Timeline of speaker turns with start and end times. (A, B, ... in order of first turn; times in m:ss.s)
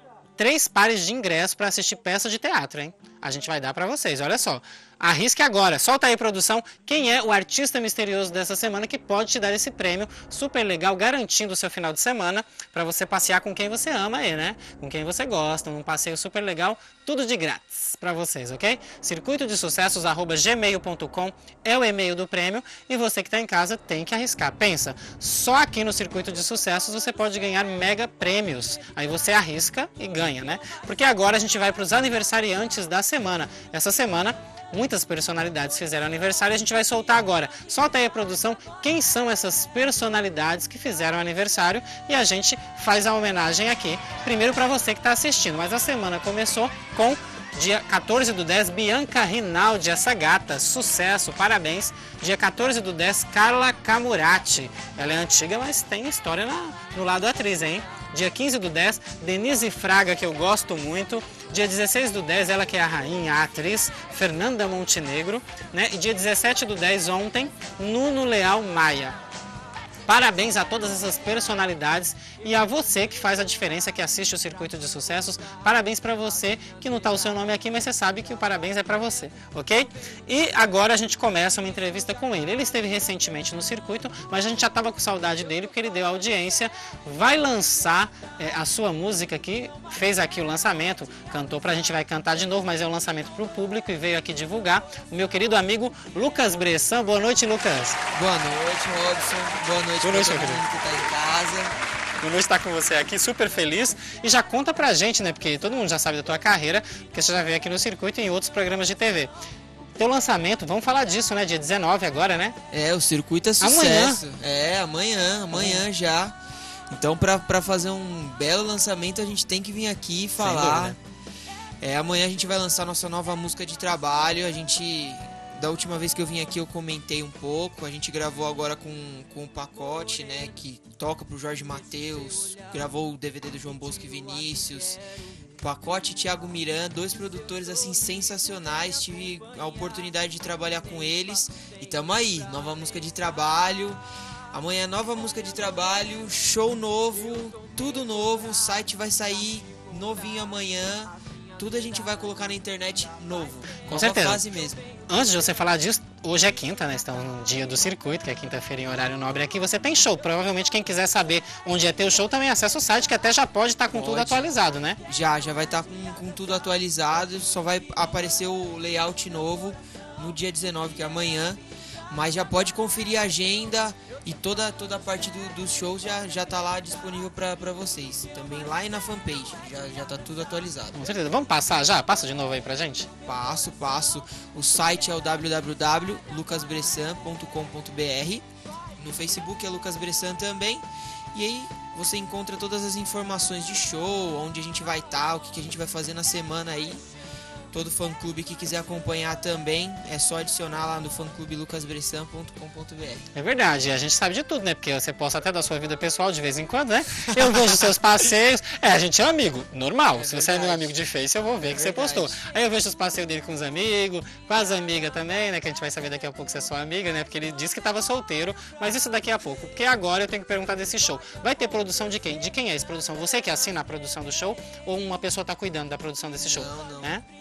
0:00.4-1:09.2 A
1:10.0-1:38.0 A
1:38.1-1:41.7 B
1:40.0-1:40.6 A
1:42.2-1:49.3 A
1:50.0-1:52.6 A
1:52.7-1:56.4 B
1:53.6-1:54.2 A
1:55.5-1:55.8 A
1:56.9-2:01.0 B
2:00.4-2:01.0 A
2:01.8-2:15.0 B
2:15.6-2:24.0 B
2:24.5-2:34.8 B
2:33.9-2:34.4 A
2:35.1-2:45.0 A
2:43.9-2:44.5 B
2:45.0-3:01.1 B
3:01.0-3:03.1 A
3:03.2-3:08.4 B
3:09.0-3:17.0 B
3:17.7-3:23.3 B
3:23.3-3:47.2 A
3:30.1-3:31.0 B
3:31.6-3:32.4 B
3:46.5-3:47.2 B